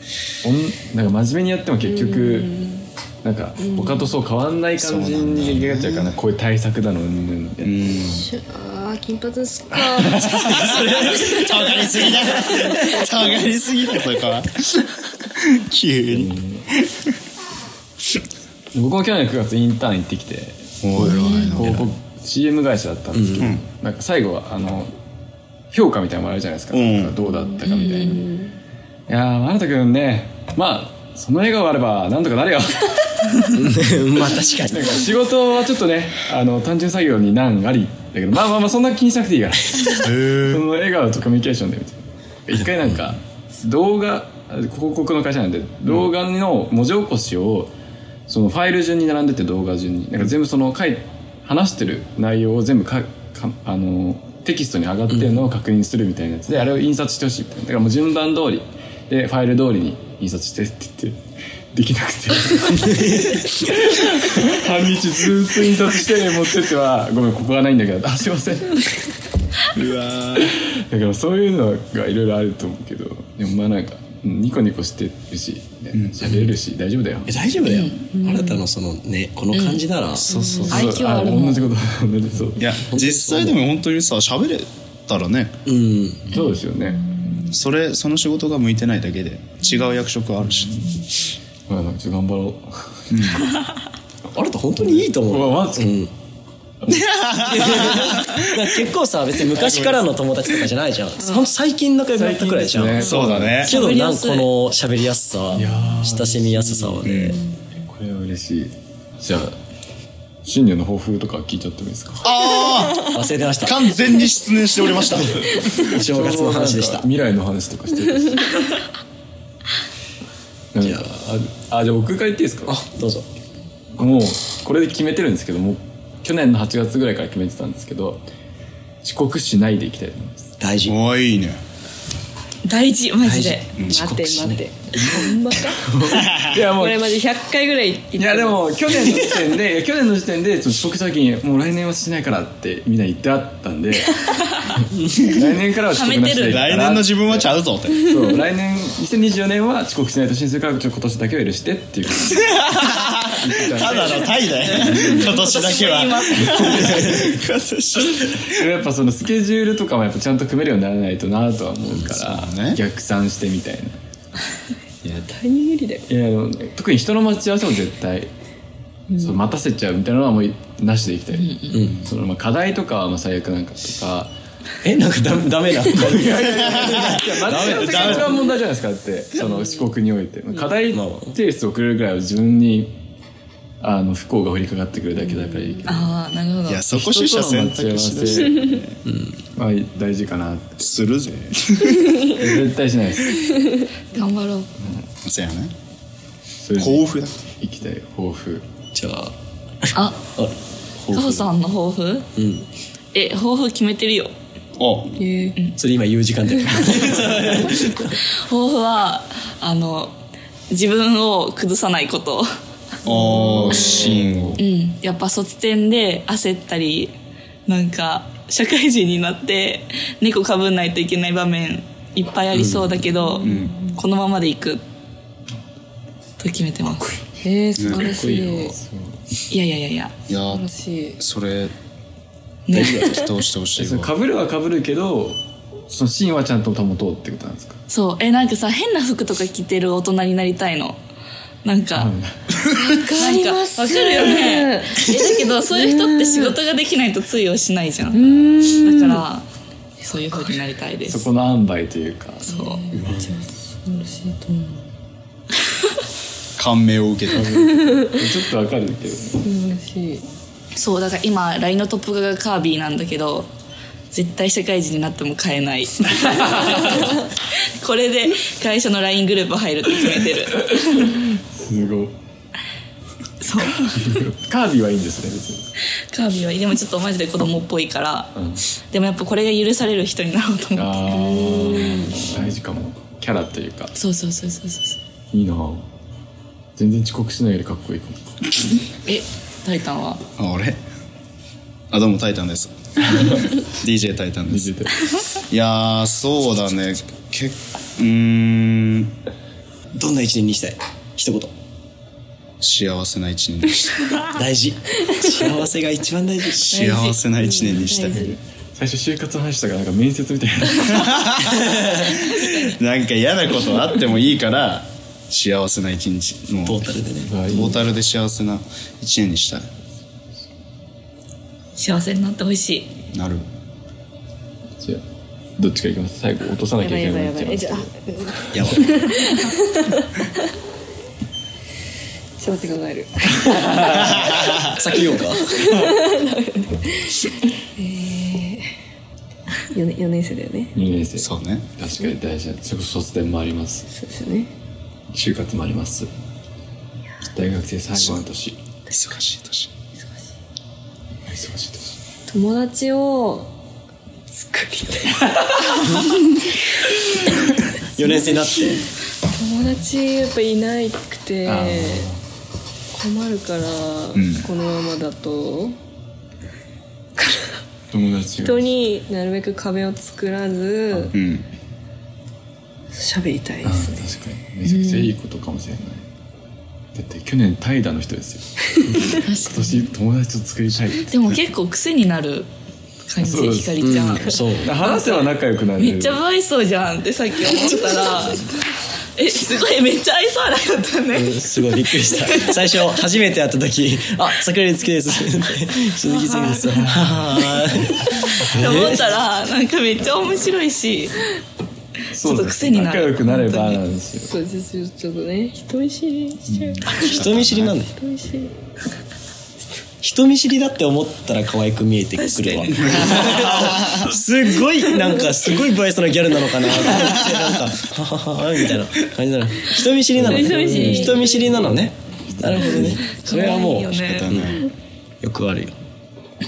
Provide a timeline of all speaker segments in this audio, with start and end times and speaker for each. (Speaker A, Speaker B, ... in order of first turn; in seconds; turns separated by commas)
Speaker A: 0.4-2.6, Speaker B: 1.8-2.9, Speaker A: 3.2-7.7, Speaker B: 3.6-4.1, Speaker C: 4.8-6.2, Speaker C: 7.6-8.3, Speaker B: 8.1-10.6, Speaker A: 9.8-10.9, Speaker C: 10.4-14.9, Speaker B: 11.4-11.8, Speaker B: 12.3-13.1, Speaker C: 15.4-16.3, Speaker A: 16.1-16.7, Speaker A: 18.7-24.9, Speaker C: 20.8-21.9, Speaker D: 23.1-23.5, Speaker A: 25.7-28.3, Speaker C: 26.7-27.1, Speaker B: 27.6-28.5, Speaker A: 29.1-33.5, Speaker D: 33.5-35.0, Speaker A: 34.7-47.7, Speaker C: 40.0-40.6, Speaker A: 48.3-61.2, Speaker D: 55.1-55.5, Speaker A: 61.7-68.9, Speaker D: 62.8-63.6, Speaker C: 69.8-70.4, Speaker A: 70.4-77.4, Speaker C: 75.9-76.2, Speaker D: 77.3-80.8, Speaker E: 77.7-78.1, Speaker B: 78.2-78.5, Speaker E: 79.5-79.8, Speaker B: 80.3-80.9, Speaker A: 80.6-82.7, Speaker E: 80.7-81.7, Speaker C: 82.6-85.5, Speaker D: 82.9-83.6, Speaker D: 85.7-86.3, Speaker A: 86.3-87.1, Speaker B: 87.1-87.5, Speaker C: 87.5-90.8, Speaker A: 91.7-92.8, Speaker C: 93.1-93.5, Speaker D: 94.3-96.1, Speaker A: 95.2-95.9, Speaker C: 96.9-98.6, Speaker D: 97.4-107.4, Speaker C: 99.5-100.0, Speaker A: 102.2-103.6, Speaker C: 103.0-103.7, Speaker E: 103.6-104.5, Speaker A: 105.5-107.1, Speaker C: 107.0-107.4, Speaker A: 107.8-109.6, Speaker A: 110.4-112.3, Speaker C: 112.2-115.6, Speaker D: 113.0-113.9, Speaker D: 115.1-117.1, Speaker A: 115.5-118.5, Speaker A: 120.7-122.7, Speaker D: 120.8-121.1, Speaker D: 122.7-123.3, Speaker A: 124.0-128.2, Speaker A: 129.0-130.5, Speaker D: 130.6-131.0, Speaker C: 130.9-131.6, Speaker E: 132.6-133.7, Speaker D: 133.2-134.7, Speaker C: 133.8-134.1, Speaker B: 133.9-136.0, Speaker A: 135.8-137.1, Speaker C: 136.1-136.6, Speaker B: 136.6-138.7, Speaker A: 138.2-152.6, Speaker E: 145.9-146.7, Speaker C: 146.5-148.1, Speaker C: 152.6-158.6, Speaker A: 153.3-155.4, Speaker E: 155.1-157.0, Speaker A: 156.4-157.3, Speaker D: 156.8-157.3, Speaker A: 158.4-164.0, Speaker C: 162.0-162.8, Speaker B: 165.1-166.1, Speaker A: 166.1-168.3, Speaker B: 169.1-169.4, Speaker A: 169.2-174.3, Speaker E: 171.4-171.8, Speaker D: 171.7-172.0, Speaker D: 174.8-178.4, Speaker A: 175.9-182.9, Speaker C: 176.4-178.4, Speaker D: 180.9-181.4, Speaker A: 183.8-186.1, Speaker E: 185.9-186.9, Speaker C: 186.7-189.0, Speaker A: 186.9-188.8, Speaker D: 189.1-189.4, Speaker A: 189.6-190.9, Speaker C: 190.8-192.3, Speaker A: 192.2-193.4, Speaker E: 194.1-194.7, Speaker C: 195.2-195.7, Speaker A: 196.6-197.1, Speaker C: 196.8-197.3, Speaker A: 197.6-198.6, Speaker D: 198.9-201.5, Speaker E: 199.9-200.3, Speaker E: 201.1-202.3, Speaker D: 202.4-202.7, Speaker E: 203.1-204.3, Speaker C: 204.8-205.2, Speaker B: 205.2-205.6, Speaker D: 205.8-208.2, Speaker E: 208.2-210.2, Speaker E: 210.7-212.5, Speaker C: 213.0-214.6, Speaker B: 213.1-214.2, Speaker E: 214.6-217.1, Speaker E: 217.7-224.8, Speaker D: 222.5-222.9, Speaker B: 223.2-224.0, Speaker C: 223.4-223.8, Speaker E: 226.4-227.2, Speaker A: 227.2-229.2, Speaker B: 227.4-228.8, Speaker C: 227.8-228.1, Speaker D: 228.0-228.7, Speaker E: 229.5-230.1, Speaker C: 230.3-230.7, Speaker B: 230.5-231.2, Speaker C: 231.2-231.7, Speaker E: 232.7-232.9, Speaker D: 232.7-233.2, Speaker C: 232.8-234.1, Speaker B: 232.8-233.3, Speaker A: 233.8-237.8, Speaker E: 237.9-241.0, Speaker E: 241.6-242.1, Speaker A: 241.9-242.6, Speaker B: 242.7-246.5, Speaker E: 243.1-249.4, Speaker B: 248.1-249.2, Speaker E: 250.0-251.3, Speaker A: 251.1-253.4, Speaker E: 252.5-252.8, Speaker B: 252.6-254.8, Speaker C: 256.6-257.6, Speaker A: 257.4-259.5, Speaker B: 257.5-258.1, Speaker B: 259.4-260.3, Speaker E: 260.8-263.5, Speaker E: 264.1-271.1, Speaker A: 266.2-267.1, Speaker A: 270.7-272.1, Speaker E: 273.4-274.2, Speaker A: 273.8-275.7, Speaker E: 275.9-278.4, Speaker A: 278.4-278.6, Speaker E: 278.9-281.2, Speaker A: 280.8-283.9, Speaker B: 281.1-282.2, Speaker E: 283.9-285.0, Speaker A: 285.3-285.9, Speaker A: 286.8-288.7, Speaker E: 289.0-290.2, Speaker C: 290.4-290.8, Speaker C: 291.9-294.7, Speaker A: 294.5-295.1, Speaker C: 295.5-299.1, Speaker D: 299.9-301.5, Speaker C: 302.6-304.0, Speaker D: 304.3-306.7, Speaker C: 306.5-308.3, Speaker E: 306.8-307.1, Speaker B: 307.4-308.4, Speaker A: 308.2-311.3, Speaker C: 310.9-312.0, Speaker E: 312.1-312.8, Speaker C: 312.6-316.9, Speaker D: 316.7-317.4, Speaker A: 317.2-317.8, Speaker C: 317.4-319.7, Speaker E: 321.8-322.9, Speaker C: 323.1-323.4, Speaker A: 325.6-327.9, Speaker B: 326.8-330.3, Speaker D: 328.5-328.9, Speaker B: 332.4-334.8, Speaker A: 333.4-334.2, Speaker D: 334.7-335.5, Speaker B: 335.4-338.7, Speaker A: 335.8-336.0, Speaker B: 339.7-340.7, Speaker A: 340.7-343.9, Speaker C: 341.2-341.7, Speaker B: 343.9-344.5, Speaker A: 345.1-346.1, Speaker A: 347.2-348.6, Speaker C: 348.0-348.2, Speaker C: 348.9-349.7, Speaker A: 351.3-352.0, Speaker B: 352.3-353.5, Speaker B: 354.3-356.9, Speaker D: 358.0-358.8, Speaker B: 358.8-362.1, Speaker A: 361.4-362.2, Speaker B: 362.9-365.8, Speaker C: 364.1-364.5, Speaker B: 367.2-367.6, Speaker A: 367.9-368.7, Speaker B: 368.4-371.1, Speaker C: 371.1-371.5, Speaker B: 372.9-374.0, Speaker A: 373.6-376.1, Speaker A: 376.9-381.2, Speaker E: 379.2-379.9, Speaker E: 381.1-382.5, Speaker E: 383.1-392.6, Speaker A: 383.2-386.2, Speaker D: 383.8-384.7, Speaker D: 391.1-399.1, Speaker E: 396.1-396.9, Speaker A: 396.8-398.1, Speaker E: 398.4-401.2, Speaker A: 402.1-404.3, Speaker E: 402.2-403.8, Speaker B: 404.2-407.1, Speaker C: 406.6-407.8, Speaker D: 407.0-407.9, Speaker B: 407.9-408.6, Speaker D: 410.0-424.6, Speaker E: 412.2-413.5, Speaker C: 412.8-414.1, Speaker A: 420.2-421.8, Speaker B: 420.2-421.5, Speaker A: 422.4-422.9, Speaker E: 423.0-424.3, Speaker C: 424.0-424.7, Speaker D: 425.2-425.8